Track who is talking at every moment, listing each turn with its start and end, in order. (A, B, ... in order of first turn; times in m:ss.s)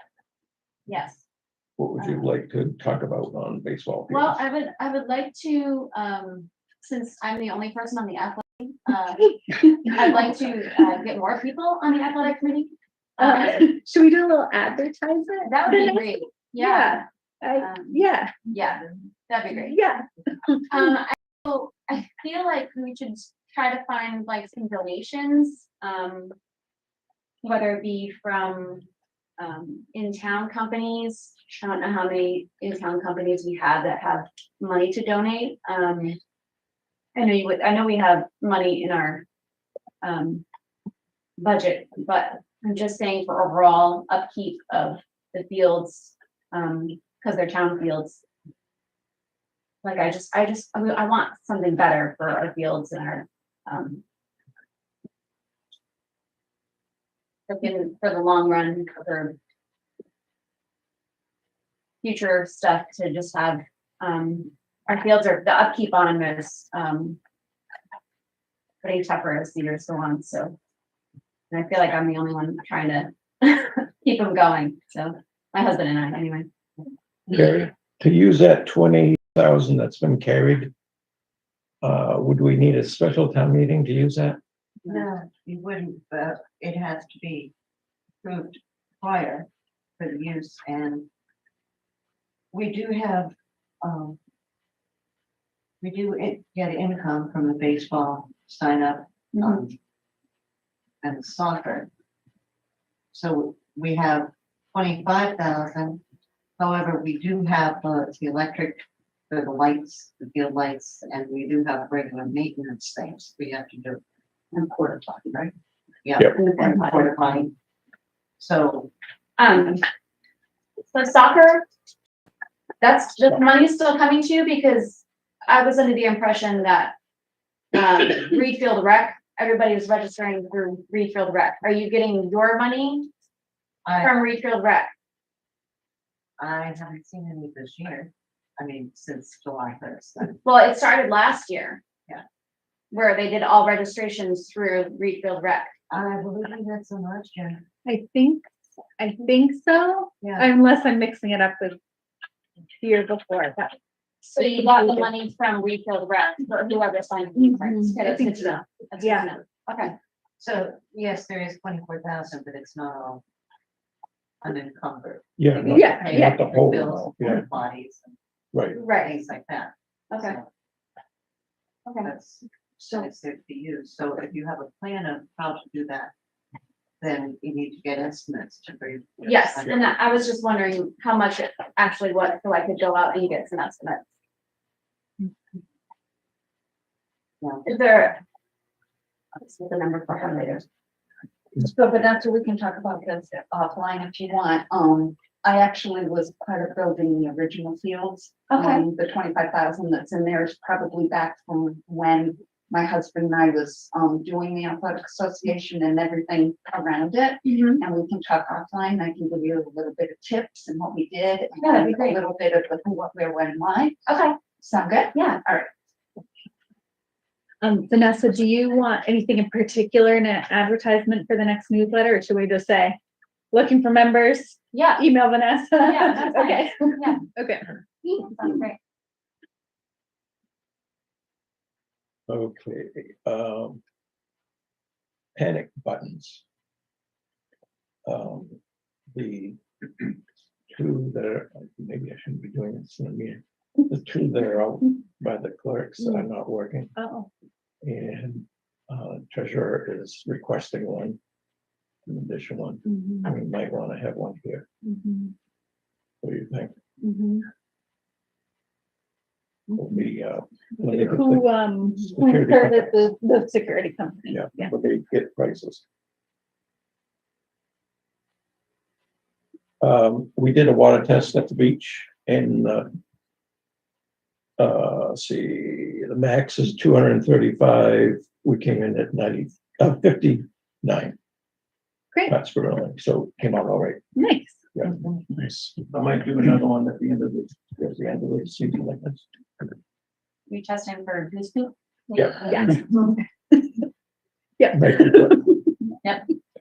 0:00.8-0:01.2 A
0:01.8-0:04.4 B
0:02.0-0:02.2 A
0:04.1-0:13.7 A
0:09.3-0:10.0 C
0:13.2-0:18.5 C
0:15.4-0:17.0 A
0:17.6-0:19.8 A
0:19.5-0:20.8 C
0:20.7-0:26.4 A
0:27.4-0:36.2 A
0:37.2-0:39.2 A
0:40.0-0:40.4 A
0:41.4-0:48.2 A
0:49.8-0:54.0 A
0:57.5-0:59.4 A
1:02.0-1:07.2 A
1:08.8-1:10.6 A
1:11.5-1:16.5 A
1:17.3-1:20.7 B
1:21.8-1:24.4 B
1:24.9-1:27.5 D
1:28.2-1:31.1 D
1:32.5-1:34.2 D
1:35.8-1:39.8 D
1:41.0-1:41.9 D
1:43.1-1:46.0 D
1:46.6-1:54.0 D
1:54.5-1:55.2 E
1:56.0-1:57.5 D
1:56.3-1:57.2 A
1:58.4-1:58.9 D
1:59.4-1:59.8 A
2:00.9-2:01.7 A
2:02.8-2:06.9 A
2:07.7-2:13.1 A
2:13.8-2:14.2 D
2:14.0-2:14.9 A
2:16.4-2:20.4 D
2:20.4-2:21.8 A
2:22.9-2:25.7 A
2:25.9-2:27.7 D
2:27.8-2:31.8 C
2:30.2-2:30.5 D
2:32.8-2:33.7 C
2:34.2-2:39.9 A
2:34.3-2:35.0 C
2:37.4-2:39.3 C
2:40.4-2:43.2 D
2:44.4-2:48.2 D
2:45.4-2:47.4 B
2:45.7-2:46.5 C
2:48.5-2:48.8 B
2:48.7-2:49.2 A
2:48.7-2:50.5 D
2:50.1-2:50.4 A
2:51.8-2:52.1 A
2:52.0-2:56.1 D
2:57.0-2:59.9 D
2:59.2-3:04.0 A
3:07.6-3:08.2 A
3:09.3-3:10.6 A
3:11.6-3:34.0 E
3:18.5-3:18.8 C
3:31.6-3:32.2 A
3:34.0-3:34.4 A
3:34.6-3:35.1 E
3:35.1-3:35.6 A
3:37.6-3:43.0 C
3:43.5-3:48.6 C
3:44.7-3:45.0 A
3:45.8-3:47.2 A
3:48.1-3:48.8 A
3:52.3-3:53.8 B
3:55.4-3:56.4 B
3:58.0-3:58.6 B
3:59.1-4:00.1 B
4:00.7-4:06.9 B
4:07.0-4:07.3 C
4:07.8-4:11.2 B
4:12.0-4:14.7 B
4:12.8-4:13.3 C
4:14.8-4:15.3 C
4:16.2-4:16.8 B
4:17.0-4:17.5 C
4:19.7-4:20.0 C
4:19.8-4:22.9 B
4:20.8-4:24.7 C
4:24.3-4:25.8 B
4:29.8-4:32.9 B
4:34.6-4:41.2 B
4:42.3-4:44.0 B
4:44.2-4:44.7 C
4:44.7-4:49.7 B
4:50.5-4:52.8 A
4:52.4-4:53.8 C
4:54.6-4:55.8 C
4:54.7-4:55.5 B
4:56.0-4:56.3 A